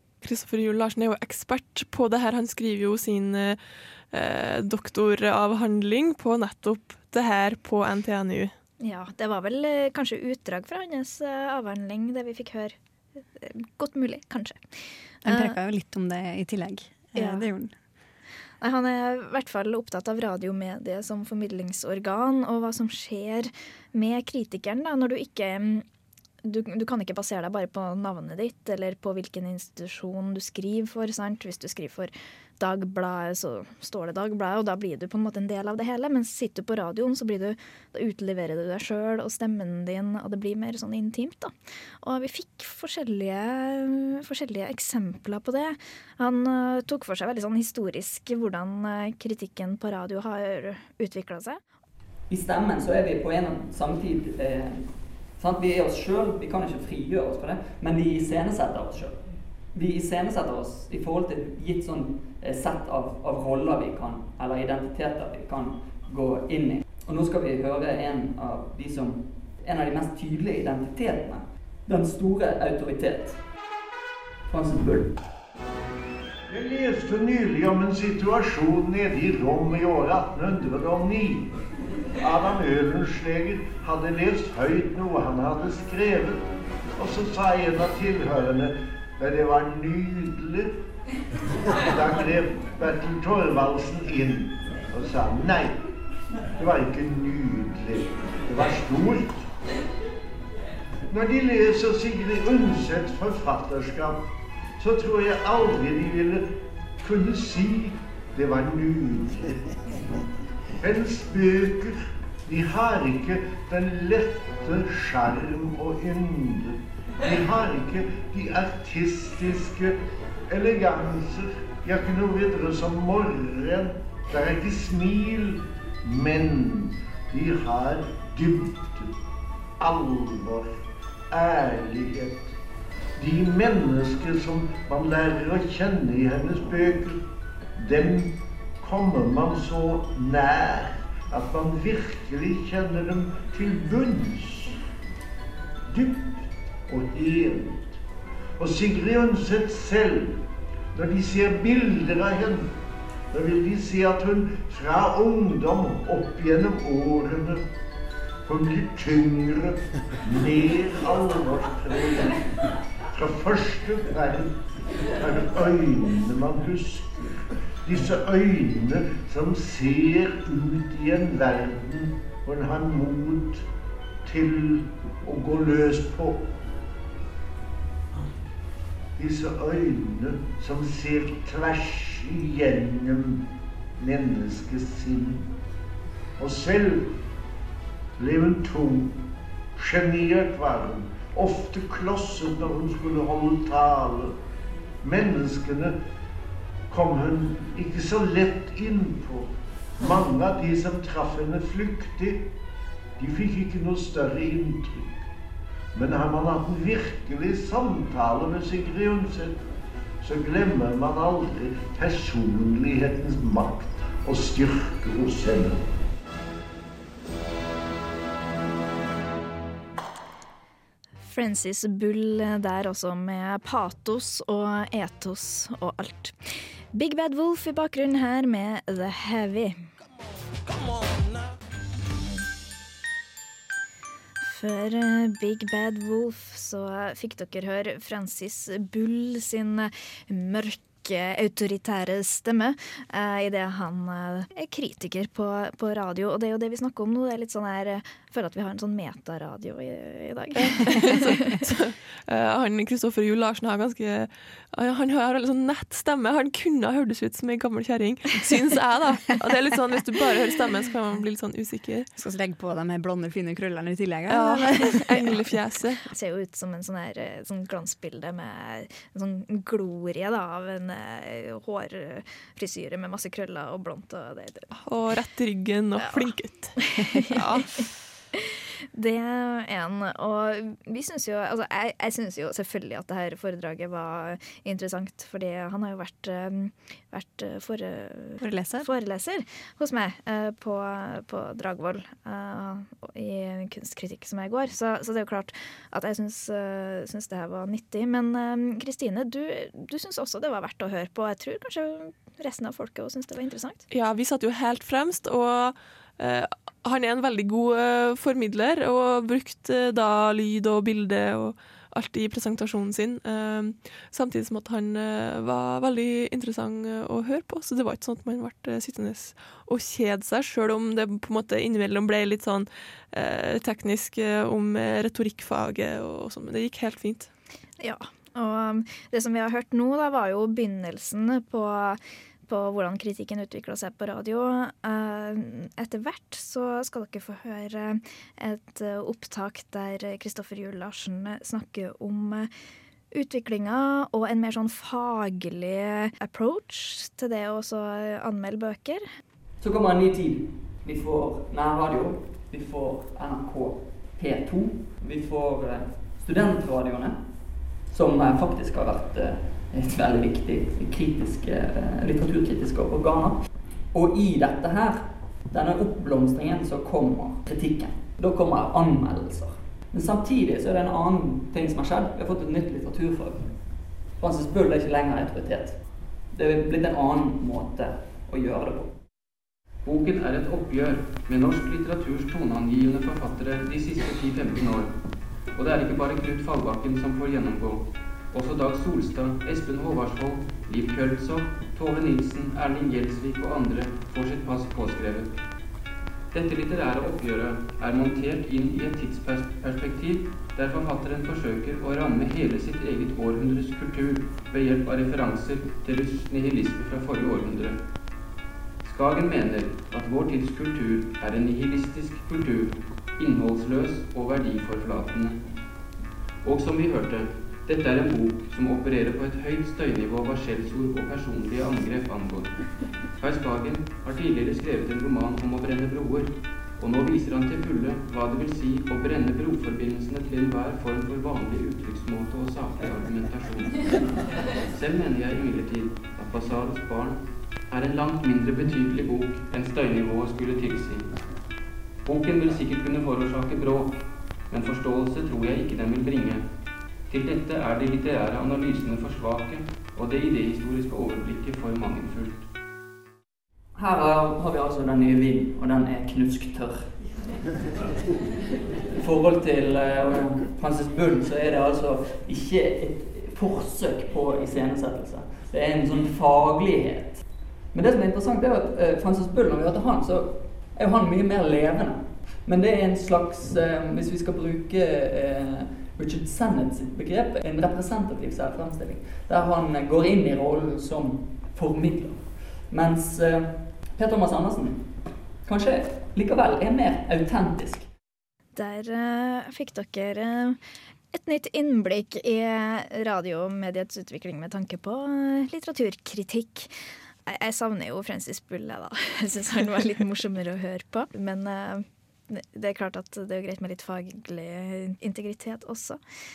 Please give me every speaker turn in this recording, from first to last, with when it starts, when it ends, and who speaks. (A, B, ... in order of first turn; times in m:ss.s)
0:00.2-0:03.6 A
0:04.1-0:08.5 A
0:08.8-0:12.8 B
0:13.4-0:15.6 B
0:15.2-0:17.7 C
0:17.2-0:17.4 B
0:18.6-0:25.8 B
0:26.4-0:51.6 B
0:52.3-1:13.4 D
1:14.5-1:15.1 D
1:16.5-1:21.5 E
1:22.2-1:26.4 E
1:27.0-1:30.7 E
1:31.8-1:35.8 E
1:36.6-1:39.4 E
1:41.1-1:44.2 E
1:44.8-1:46.5 E
1:47.0-1:49.5 E
1:50.8-2:09.1 E
2:09.8-2:10.7 E
2:11.3-2:12.5 E
2:13.2-2:17.2 E
2:17.8-2:24.8 E
2:25.9-2:27.8 E
2:28.6-2:30.4 E
2:30.9-2:32.7 E
2:33.3-2:37.6 E
2:38.5-2:42.4 E
2:43.1-2:44.6 E
2:45.1-2:47.2 E
2:47.9-2:53.7 E
2:54.2-2:56.4 E
2:59.2-3:03.4 E
3:04.0-3:05.4 E
3:06.4-3:07.1 E
3:08.2-3:09.1 E
3:09.8-3:14.3 E
3:15.0-3:16.0 E
3:16.9-3:22.4 E
3:23.2-3:25.1 E
3:25.9-3:29.6 E
3:30.2-3:35.8 E
3:41.2-3:46.4 B
3:46.9-3:49.8 B
3:52.1-3:52.4 B
3:54.4-4:11.6 B
4:10.6-4:22.1 A
4:22.2-4:25.5 C
4:24.3-4:26.0 A
4:26.2-4:34.7 B
4:34.8-4:37.7 A
4:36.0-4:37.1 B
4:37.8-5:03.8 B
4:48.4-4:48.9 C
5:03.9-5:27.3 A
5:27.8-5:42.5 B
5:43.1-5:49.0 B
5:49.6-6:18.9 D
6:19.8-6:25.0 F
6:25.5-6:35.4 F
6:36.3-6:47.8 F
6:48.8-6:55.4 F
6:56.4-7:21.2 F
7:22.0-7:26.5 F
7:27.1-7:32.4 F
7:33.8-7:37.1 D
7:39.0-8:07.9 D
8:08.6-8:10.6 B
8:11.1-8:16.7 B
8:17.3-8:26.0 B